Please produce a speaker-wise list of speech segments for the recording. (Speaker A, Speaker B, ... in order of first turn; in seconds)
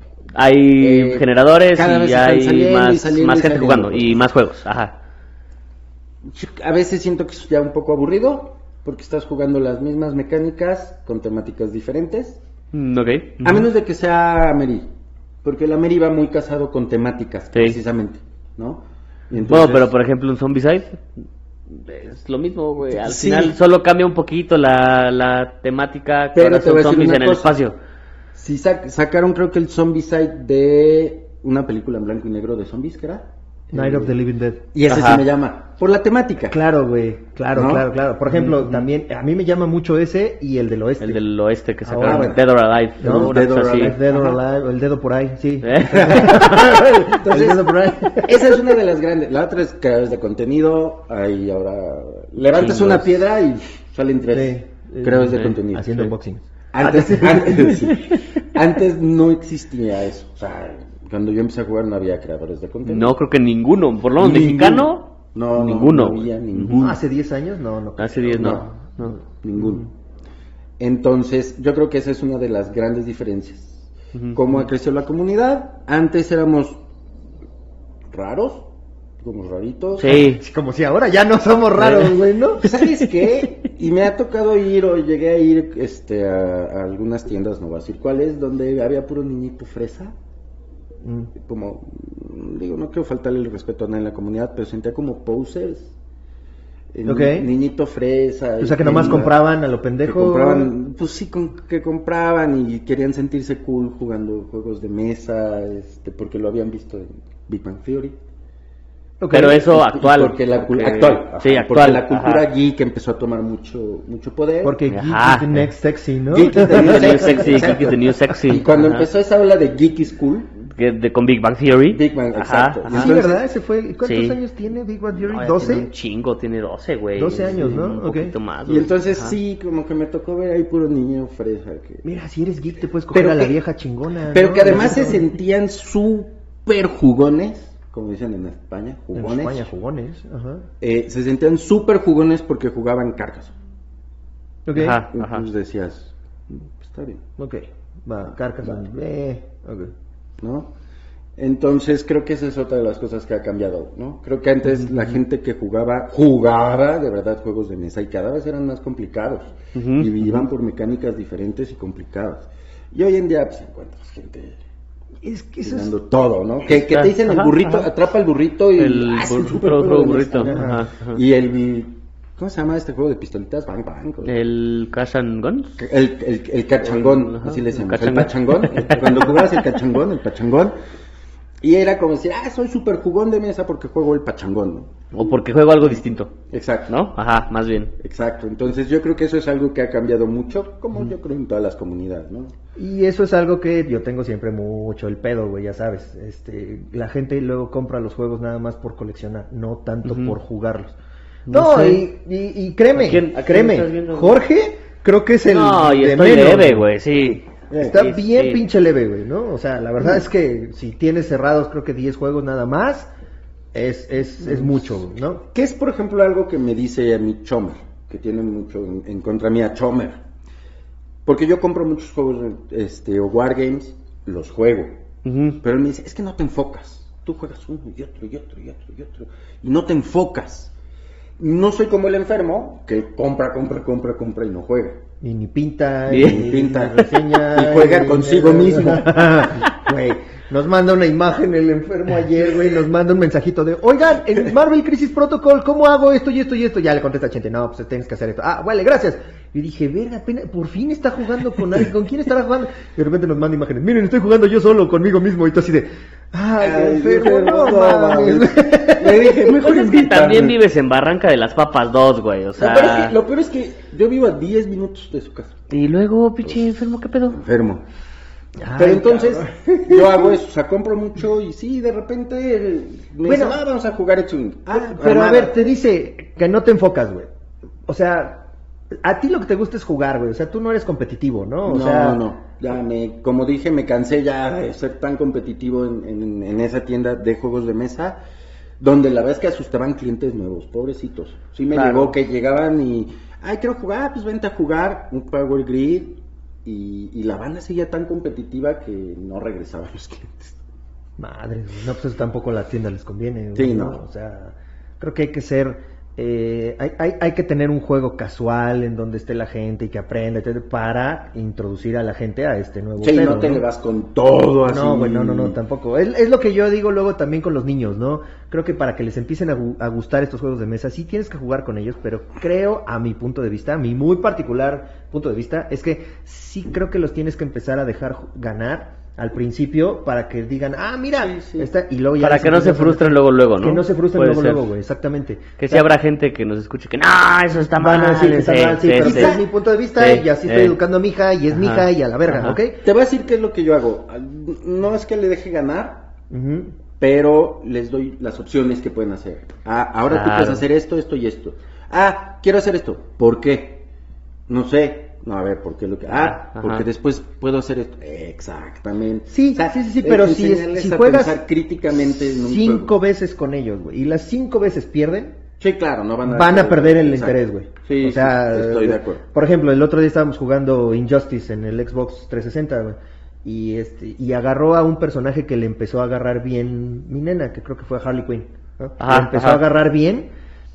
Speaker A: 0.3-5.0, 12.7-13.7, 17.5-17.8, 19.4-21.1, 21.7-27.8, 34.9-35.2, 41.0-44.0, 45.6-47.0, 52.5-53.2, 55.3-56.0, 57.0-58.2, 62.9-66.9, 68.0-69.2, 80.0-80.4, 81.8-82.1, 109.3-112.5, 114.9-115.7, 116.6-119.1, 120.7-123.2, 124.0-124.4, 125.2-129.4, 144.8-145.5, 159.8-160.2, 166.7-167.9, 168.8-171.2, 174.2-175.8, 176.8-179.7, 185.1-186.3, 186.9-187.9, 200.0-200.3, 201.5-202.1, 202.9-204.4, 205.5-208.6, 225.2-225.6, 236.1-236.4, 259.6-263.1, 265.7-267.4, 291.7-292.1, 332.2-334.6, 335.6-339.4, 340.0-340.8, 341.5-342.6, 350.1-350.6, 356.2-356.9, 379.0-379.6
Speaker B: 0.8-4.2, 6.2-12.4, 13.4-14.9, 15.4-19.9, 22.9-23.6, 26.3-27.6, 28.3-34.1, 34.7-36.6, 37.5-37.9, 42.0-42.5, 43.0-44.4, 45.9-56.0, 56.7-63.1, 64.2-67.0, 68.3-68.7, 69.3-69.9, 70.8-76.8, 78.1-78.7, 79.2-80.2, 82.6-90.1, 91.4-95.9, 96.9-99.3, 100.0-108.2, 109.5-114.8, 116.3-120.5, 121.9-123.4, 127.5-127.9, 128.7-132.0, 133.1-133.6, 134.3-139.7, 140.8-143.5, 145.1-147.2, 150.4-150.7, 151.4-164.6, 165.7-174.4, 175.8-180.8, 181.6-185.1, 186.5-187.0, 188.0-192.5, 207.7-208.1, 215.5-220.2, 221.3-225.0, 225.6-230.7, 231.4-235.0, 236.1-239.4, 256.6-260.6, 262.6-265.6, 267.3-267.9, 268.8-275.7, 281.7-288.2, 288.8-300.6, 303.6-304.0, 313.0-315.6, 331.2-331.7, 339.0-339.4, 342.8-346.1, 347.0-353.8, 354.5-362.9, 365.6-369.2
Speaker C: 33.7-34.6, 36.5-41.2, 41.8-42.3, 43.0-48.6, 54.3-56.5, 66.8-68.7, 80.0-82.7, 91.0-91.3, 97.1-97.5, 98.6-100.7, 109.2-109.6, 114.6-117.7, 122.9-125.9, 127.2-128.3, 132.0-135.3, 139.2-140.7, 144.7-145.0, 147.4-149.9, 165.2-165.9, 170.4-170.8, 192.8-201.0, 201.5-206.9, 207.8-213.1, 213.7-215.4, 235.2-259.4, 268.6-270.3, 273.2-273.6, 274.7-277.3, 277.9-278.4, 279.0-282.2, 301.2-313.6, 314.6-335.9, 337.8-342.8, 346.3-346.7, 359.3-361.4, 362.2-365.4, 366.2-380.3